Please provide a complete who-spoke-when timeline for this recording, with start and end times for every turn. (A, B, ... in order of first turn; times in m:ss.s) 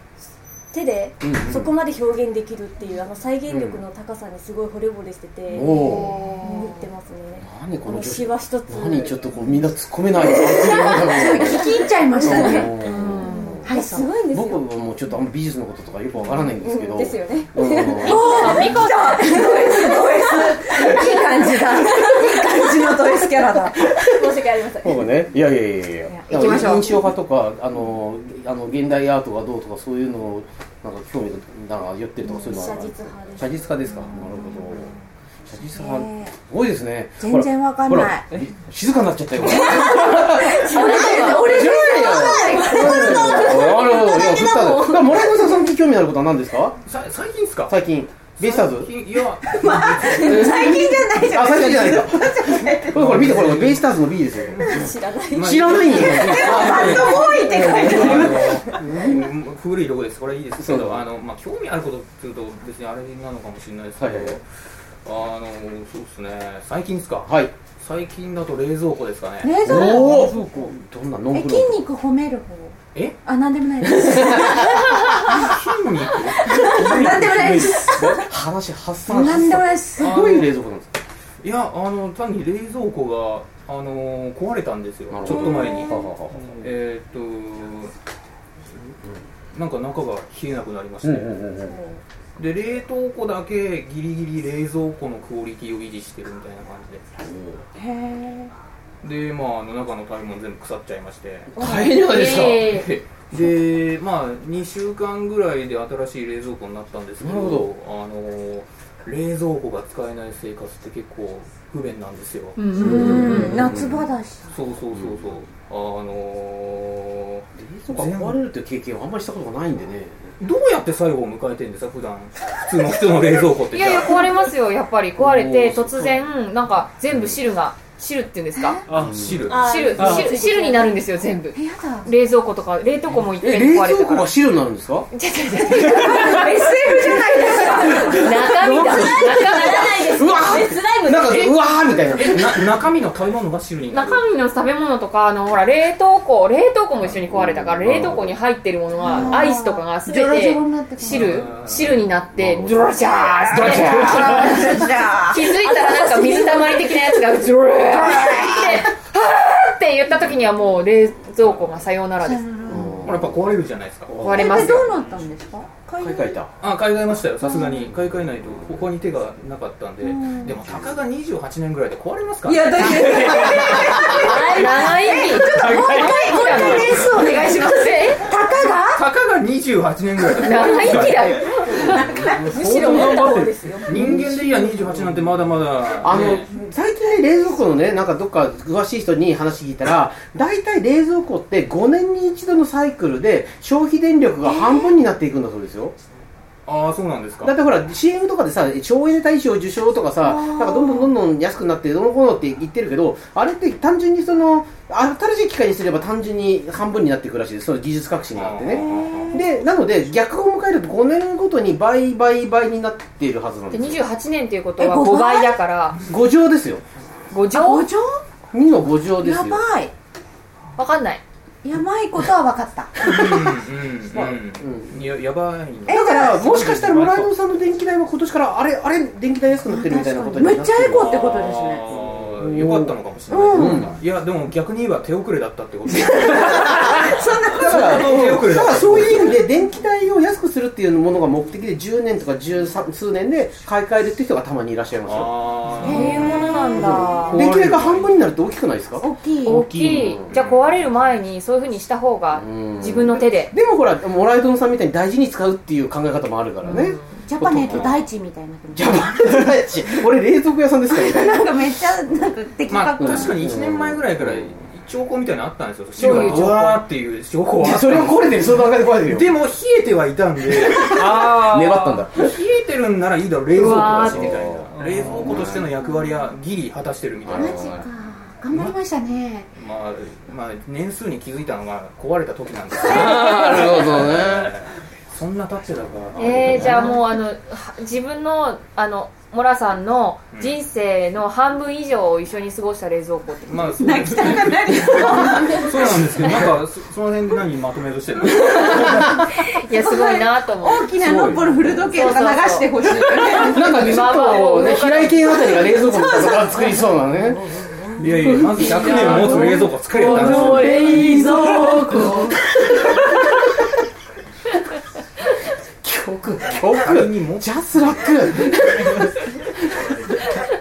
0:00.7-0:09.3 A
0:01.2-0:01.7 B
0:03.5-0:03.8 B
0:05.5-0:06.7 C
0:05.5-0:06.2 B
0:07.4-0:13.7 B
0:10.2-0:12.9 D
0:12.2-0:14.6 A
0:12.8-0:13.6 C
0:13.6-0:14.1 D
0:14.3-0:18.7 B
0:16.5-0:25.0 A
0:18.0-0:24.0 D
0:18.1-0:19.2 C
0:24.8-0:34.9 B
0:26.1-0:27.1 D
0:32.3-0:32.5 D
0:32.5-0:33.7 A
0:34.1-0:34.6 D
0:35.5-0:46.8 B
0:35.8-0:36.4 D
0:37.2-0:38.2 D
0:39.4-0:45.3 D
0:40.8-0:41.4 C
0:42.6-0:44.0 A
0:46.8-0:47.8 E
0:47.7-0:48.9 B
0:48.4-0:50.7 E
0:49.4-0:53.2 D
0:50.1-0:59.2 B
0:52.9-0:53.9 E
0:54.5-1:04.4 E
0:54.6-0:56.7 A
0:56.2-0:58.5 D
1:00.6-1:01.0 B
1:04.0-1:04.4 B
1:05.0-1:07.3 E
1:07.3-1:07.5 B
1:07.8-1:10.1 E
1:09.4-1:10.7 D
1:09.6-1:11.8 B
1:11.3-1:15.4 D
1:14.0-1:15.0 B
1:15.1-1:17.8 E
1:16.4-1:18.3 D
1:16.7-1:20.9 B
1:19.1-1:20.2 D
1:20.0-1:20.5 E
1:21.4-1:27.9 E
1:25.1-1:26.5 B
1:29.5-1:31.4 E
1:31.0-1:31.8 B
1:32.4-1:37.1 E
1:37.2-1:37.6 B
1:37.8-1:38.5 D
1:39.0-1:41.7 E
1:41.5-1:42.6 B
1:41.6-1:42.9 C
1:42.2-1:58.4 E
1:47.2-1:47.7 B
1:52.6-1:53.6 C
1:52.7-1:54.5 D
1:52.9-1:54.0 B
1:57.6-2:00.4 B
2:00.4-2:04.3 E
2:03.7-2:08.8 C
2:05.2-2:06.2 B
2:07.1-2:07.4 B
2:08.9-2:09.7 E
2:09.0-2:09.5 B
2:09.5-2:10.9 A
2:09.6-2:14.3 C
2:11.5-2:12.1 D
2:13.4-2:15.1 B
2:15.1-2:16.8 C
2:15.7-2:18.4 D
2:16.9-2:17.7 A
2:17.8-2:22.8 B
2:18.1-2:20.0 C
2:18.9-2:21.7 A
2:22.2-2:24.2 E
2:23.9-2:42.5 C
2:27.3-2:28.3 B
2:29.0-2:31.3 D
2:31.1-2:32.0 E
2:32.4-2:32.7 B
2:33.4-2:36.1 D
2:33.6-2:34.2 B
2:35.7-2:36.9 A
2:37.9-2:38.9 D
2:41.4-2:41.7 E
2:42.2-2:43.2 D
2:42.7-2:43.4 B
2:43.0-2:44.2 E
2:44.1-2:44.8 B
2:44.2-2:44.9 C
2:44.3-2:46.4 D
2:46.0-2:46.5 B
2:46.6-2:54.3 E
2:47.4-2:47.9 D
2:50.0-2:50.6 D
2:52.4-2:59.0 D
2:54.2-2:55.4 A
2:54.5-2:58.2 C
2:55.5-2:57.1 E
2:58.9-3:06.5 E
3:00.2-3:01.0 D
3:00.4-3:02.0 C
3:01.7-3:02.8 D
3:02.5-3:04.1 A
3:03.9-3:04.9 B
3:06.0-3:16.0 B
3:14.4-3:15.0 D
3:16.7-3:17.5 E
3:17.4-3:34.0 B
3:20.2-3:21.1 D
3:28.3-3:29.4 E
3:28.8-3:29.4 D
3:33.7-3:36.0 C
3:34.8-3:35.6 D
3:36.1-3:36.8 B
3:37.3-3:37.9 C
3:37.5-3:38.2 D
3:38.5-3:39.6 B
3:39.2-3:39.9 D
3:40.8-3:41.2 C
3:41.6-3:43.1 D
3:43.0-3:47.3 E
3:44.1-3:45.0 B
3:45.9-3:46.4 D
3:45.9-3:51.2 B
3:49.6-3:52.0 D
3:50.9-3:59.4 E
3:52.4-3:53.0 B
3:53.3-3:53.9 D
3:53.5-3:53.9 B
3:55.9-3:58.3 D
3:57.5-4:09.1 B
4:05.1-4:06.5 E
4:05.8-4:06.8 D
4:05.8-4:07.4 C
4:07.1-4:08.2 E
4:09.0-4:09.7 D
4:09.4-4:13.6 C
4:09.7-4:10.4 B
4:10.3-4:10.7 E
4:12.3-4:18.0 B
4:16.6-4:17.2 C
4:17.2-4:19.5 D
4:17.7-4:17.9 E
4:18.7-4:21.4 B
4:20.9-4:23.6 D
4:22.7-4:37.8 E
4:23.0-4:24.5 B
4:26.0-4:26.8 C
4:26.0-4:26.7 B
4:27.6-4:29.3 B
4:30.5-4:32.3 B
4:33.5-4:34.4 C
4:33.7-4:35.7 B
4:37.3-4:37.9 B
4:37.3-4:39.5 D
4:38.5-4:38.8 E
4:39.5-4:47.0 E
4:42.8-4:44.5 B
4:46.2-4:53.7 C
4:46.3-4:46.8 B
4:53.5-4:59.2 E
4:53.7-4:55.9 D
4:59.3-5:00.9 C
4:59.7-5:03.8 D
5:01.0-5:01.8 B
5:01.9-5:05.9 C
5:03.4-5:07.4 B
5:05.3-5:07.8 D
5:08.0-5:10.8 E
5:08.3-5:12.7 B
5:08.6-5:12.0 C
5:11.0-5:11.5 D
5:15.8-5:19.2 B
5:16.6-5:18.5 E